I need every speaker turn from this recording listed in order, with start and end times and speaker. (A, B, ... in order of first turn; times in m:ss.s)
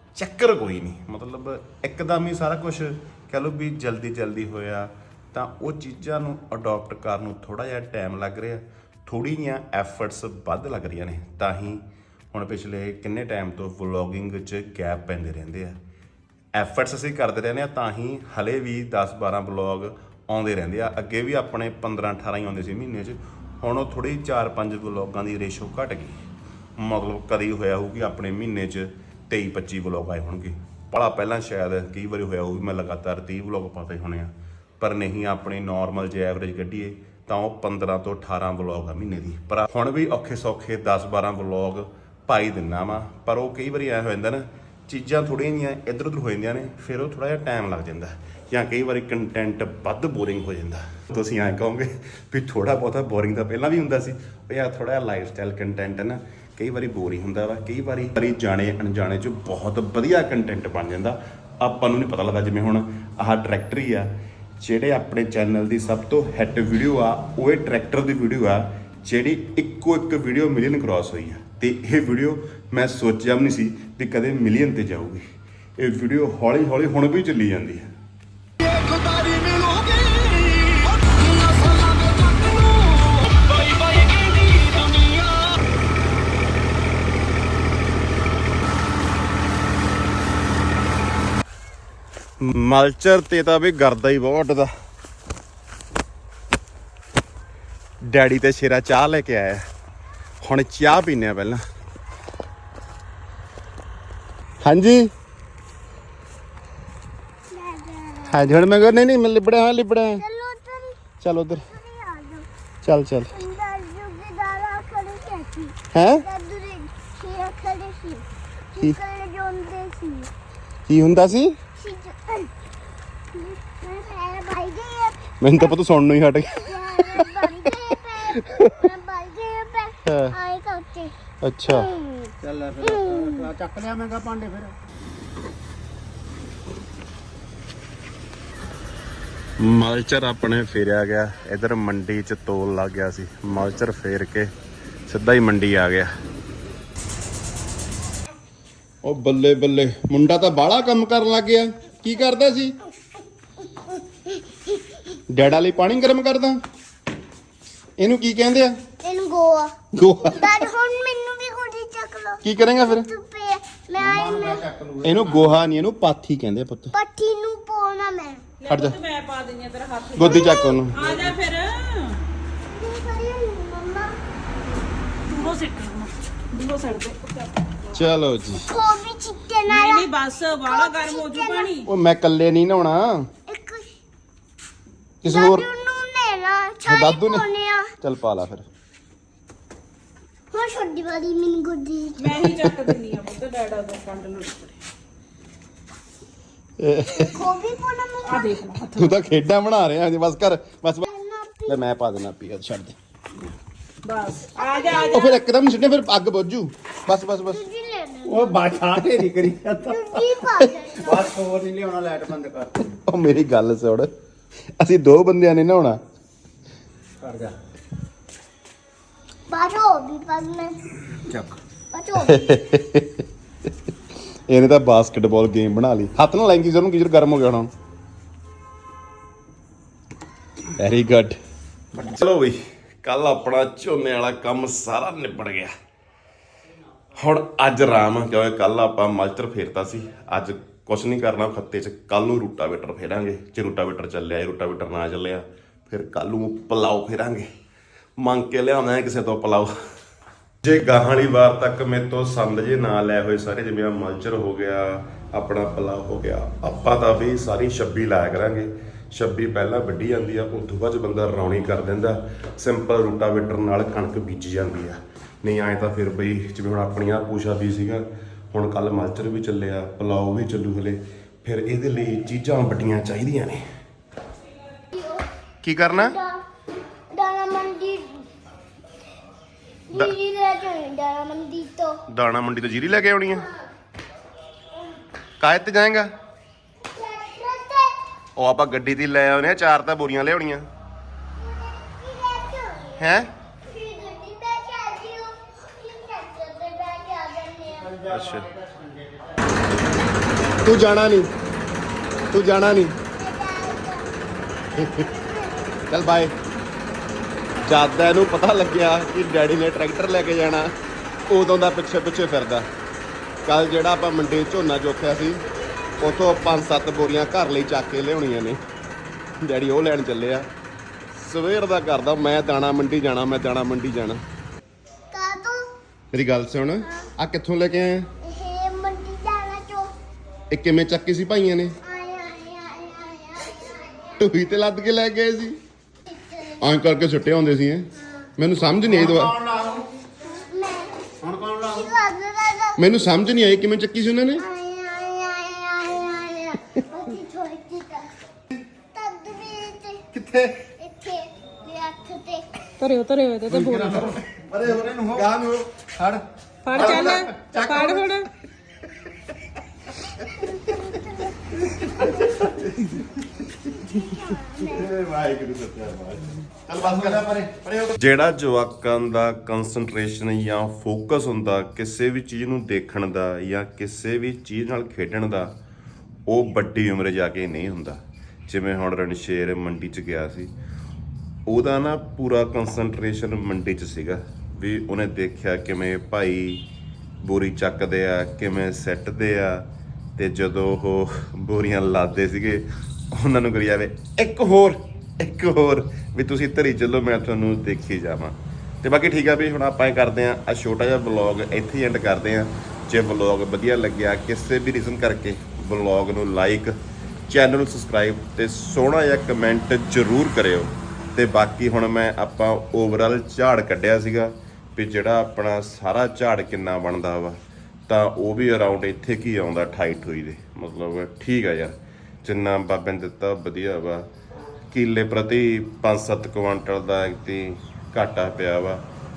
0:00.1-0:15.8 A
0:16.5-0:26.2 A
0:26.8-1:15.2 A
1:15.8-1:17.9 A
1:18.6-1:25.4 B
1:32.4-1:34.7 A
1:38.0-1:39.6 A
1:40.4-1:41.6 A
1:44.6-1:45.1 A
1:47.5-1:48.4 C
1:48.3-1:50.2 A
1:50.1-1:51.0 C
1:51.2-1:51.6 A
1:51.5-1:52.5 C
1:52.8-1:53.3 A
1:53.3-2:00.3 C
1:55.9-1:56.2 A
2:00.9-2:01.6 A
2:01.8-2:02.5 C
2:03.3-2:05.7 C
2:05.4-2:07.7 A
2:06.6-2:11.1 C
2:08.3-2:08.7 A
2:10.0-2:10.3 A
2:11.4-2:11.9 A
2:11.7-2:13.5 C
2:12.4-2:14.7 B
2:19.6-2:24.5 A
2:25.1-2:26.1 A
2:29.0-2:32.8 A
2:33.9-2:34.8 C
2:35.3-2:36.6 A
2:38.0-2:38.8 A
2:39.0-2:39.7 C
2:39.9-2:40.6 A
2:40.2-2:44.7 C
2:42.4-2:43.1 A
2:44.1-2:45.5 B
2:45.0-2:46.9 A
2:46.9-2:48.5 C
2:48.6-2:52.2 D
2:48.7-2:49.0 A
2:50.2-2:51.0 A
2:50.2-2:50.8 C
2:52.7-2:54.1 C
2:55.3-2:57.8 D
2:57.9-2:58.7 A
2:58.6-3:01.7 C
2:59.6-3:01.9 D
3:01.8-3:03.3 A
3:03.5-3:03.9 C
3:05.2-3:05.7 A
3:05.2-3:07.9 C
3:06.8-3:07.4 A
3:08.0-3:08.7 A
3:10.5-3:12.5 C
3:12.2-3:14.8 D
3:16.8-3:17.4 A
3:17.2-3:18.7 C
3:18.2-3:19.1 D
3:18.9-3:21.0 A
3:21.0-3:21.8 C
3:21.7-3:23.0 A
3:24.0-3:25.3 D
3:24.6-3:25.3 C
3:24.9-3:27.6 A
3:27.5-3:28.7 C
3:28.4-3:30.0 B
3:28.7-3:29.8 A
3:29.8-3:31.4 C
3:31.1-3:32.9 B
3:32.8-3:34.1 A
3:34.8-3:36.0 A
3:37.2-3:37.5 B
3:39.5-3:40.8 C
3:41.2-3:41.6 B
3:41.9-3:42.6 C
3:42.2-3:43.2 A
3:44.5-3:47.7 A
3:50.7-3:51.4 A
3:51.9-3:55.7 A
3:57.1-4:07.5 A
4:08.2-4:09.7 A
4:10.6-4:33.6 A
4:34.9-4:35.3 C
4:35.6-4:36.2 A
4:35.9-4:36.4 C
4:37.1-4:38.3 C
4:39.9-4:42.0 C
4:42.1-4:43.5 A
4:45.4-4:46.1 A
4:46.9-4:47.9 C
4:48.4-4:50.6 A
4:51.4-4:53.0 C
4:53.0-4:53.3 A
4:53.6-4:58.1 C
4:58.0-4:58.5 A
5:00.6-5:01.3 A
5:02.3-5:03.0 A
5:03.1-5:04.1 C
5:04.8-5:05.1 A
5:04.8-5:05.8 C
5:05.9-5:06.3 A
5:07.6-5:10.7 A
5:11.3-5:12.7 A
5:13.4-5:15.4 A
5:16.0-5:18.6 A
5:19.4-5:20.5 A
5:21.1-5:24.2 A
5:25.1-5:25.7 C
5:26.1-5:28.1 A
5:28.2-5:29.9 C
5:30.5-5:31.8 A
5:31.8-5:34.4 C
5:34.2-5:35.6 A
5:36.1-5:36.6 C
5:36.6-5:39.4 A
5:39.0-5:39.8 B
5:40.2-5:43.0 C
5:41.4-5:41.7 B
5:42.8-5:44.4 A
5:44.4-5:48.1 C
5:48.7-5:52.6 C
5:50.2-5:50.6 A
5:52.8-5:54.1 D
5:53.5-5:56.2 A
5:53.6-5:55.2 B
5:56.6-5:58.3 D
5:56.7-5:57.8 B
5:56.7-5:57.2 A
6:00.2-6:02.4 C
6:01.5-6:03.1 A
6:03.5-6:04.9 C
6:04.6-6:15.5 A
6:16.3-6:20.5 A
6:21.5-6:26.7 A
6:27.2-6:29.6 A
6:30.2-6:46.7 A
6:47.3-7:04.1 A
7:04.7-7:08.8 A